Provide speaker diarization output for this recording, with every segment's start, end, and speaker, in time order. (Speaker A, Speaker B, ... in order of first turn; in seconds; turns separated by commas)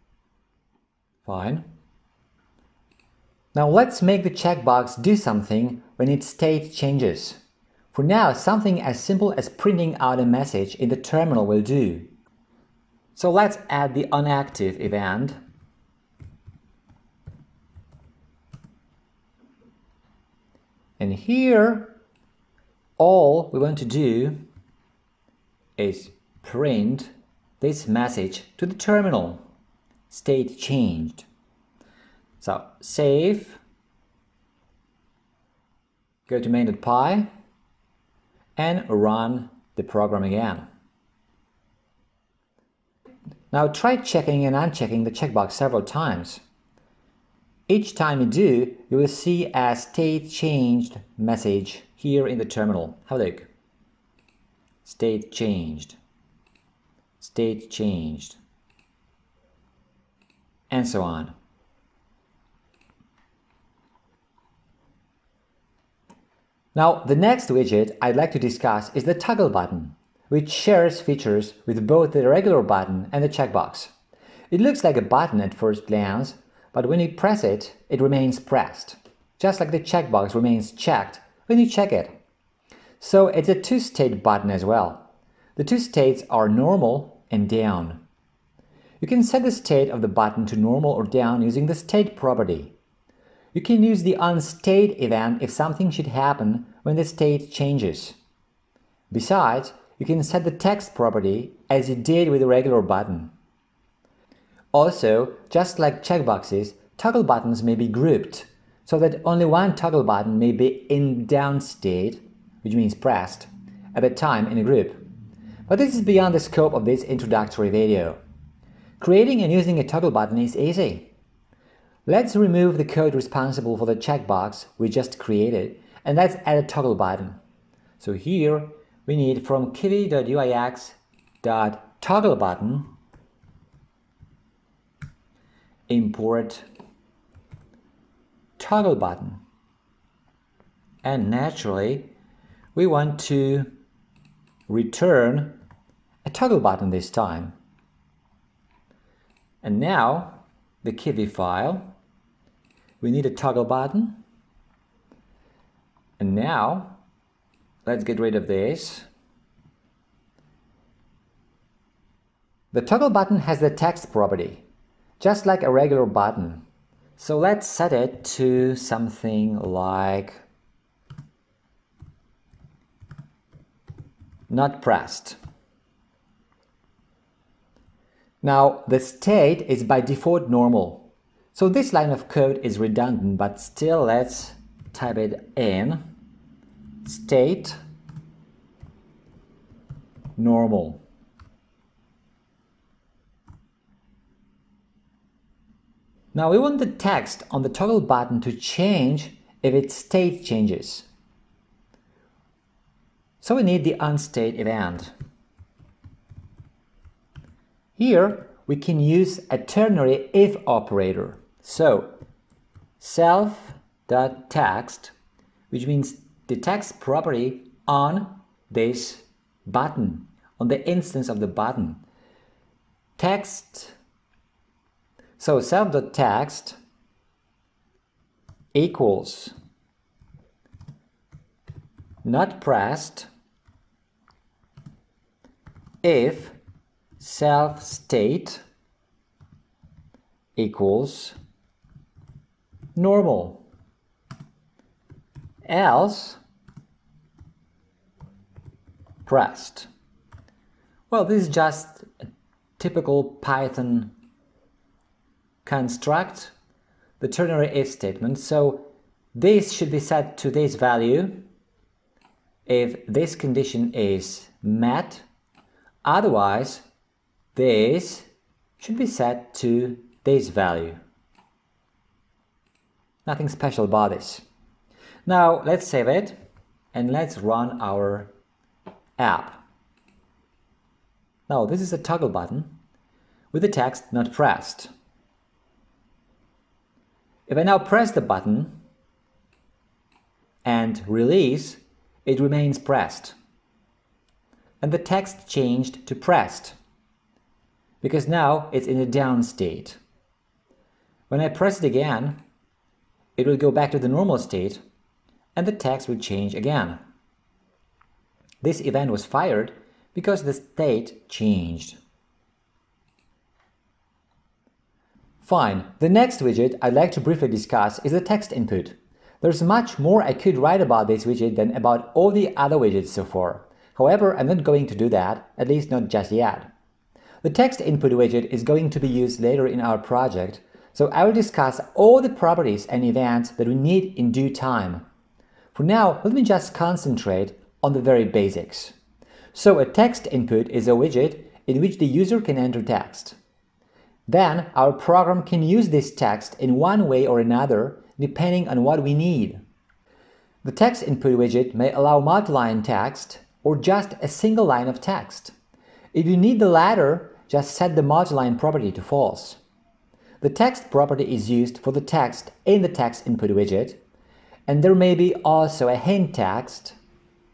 Speaker A: 1.2-1.6, Speaker A: 3.5-7.4, Speaker A: 7.9-12.1, Speaker A: 13.1-15.4, Speaker A: 21.0-22.0, Speaker A: 23.0-24.4, Speaker A: 25.8-29.4, Speaker A: 30.1-31.2, Speaker A: 32.4-33.6, Speaker A: 36.3-37.3, Speaker A: 38.6-40.6, Speaker A: 43.5-46.4, Speaker A: 47.7-53.5, Speaker A: 54.8-56.0, Speaker A: 57.2-58.4, Speaker A: 60.7-61.3, Speaker A: 66.7-73.9, Speaker A: 74.5-82.1, Speaker A: 83.0-88.0, Speaker A: 89.0-92.7, Speaker A: 93.5-98.2, Speaker A: 99.1-103.3, Speaker A: 104.7-115.0, Speaker A: 115.7-118.2, Speaker A: 119.0-121.1, Speaker A: 122.0-127.4, Speaker A: 128.0-132.9, Speaker A: 135.9-136.6, Speaker A: 138.6-139.4, Speaker A: 141.0-142.1, Speaker A: 142.7-143.7, Speaker A: 144.7-145.6, Speaker A: 146.2-147.5, Speaker A: 149.6-151.9, Speaker A: 153.0-154.2, Speaker A: 156.2-157.0, Speaker A: 157.8-159.1, Speaker A: 162.7-164.6, Speaker A: 165.2-166.6, Speaker A: 167.2-170.4, Speaker A: 174.5-175.4, Speaker A: 178.4-186.0, Speaker A: 187.0-187.8, Speaker A: 190.3-191.0, Speaker A: 196.3-201.1, Speaker A: 203.4-205.1, Speaker A: 207.9-212.1, Speaker A: 213.0-215.1, Speaker A: 215.7-222.0, Speaker A: 223.2-223.9, Speaker A: 225.4-226.8, Speaker A: 228.7-229.5, Speaker A: 232.2-233.3, Speaker A: 236.0-236.6, Speaker A: 237.2-238.6, Speaker A: 240.6-241.3, Speaker A: 242.9-243.6, Speaker A: 245.7-246.4, Speaker A: 249.2-249.9, Speaker A: 251.1-252.1, Speaker A: 252.8-254.1, Speaker A: 255.6-256.5, Speaker A: 257.2-261.4, Speaker A: 262.6-265.2, Speaker A: 266.0-266.8, Speaker A: 267.5-268.3, Speaker A: 268.8-271.0, Speaker A: 273.2-274.4, Speaker A: 275.2-276.4, Speaker A: 276.9-278.3, Speaker A: 279.2-279.6, Speaker A: 281.5-282.8, Speaker A: 283.5-284.9, Speaker A: 287.5-288.8, Speaker A: 290.6-293.3, Speaker A: 294.8-296.8, Speaker A: 298.0-300.0, Speaker A: 301.3-302.4, Speaker A: 303.4-304.8, Speaker A: 305.5-307.0, Speaker A: 308.6-312.0, Speaker A: 315.4-326.7, Speaker A: 327.4-335.0, Speaker A: 335.7-338.9, Speaker A: 339.5-343.4, Speaker A: 344.3-349.6, Speaker A: 350.6-355.5, Speaker A: 356.1-359.6, Speaker A: 360.4-364.0, Speaker A: 364.7-366.9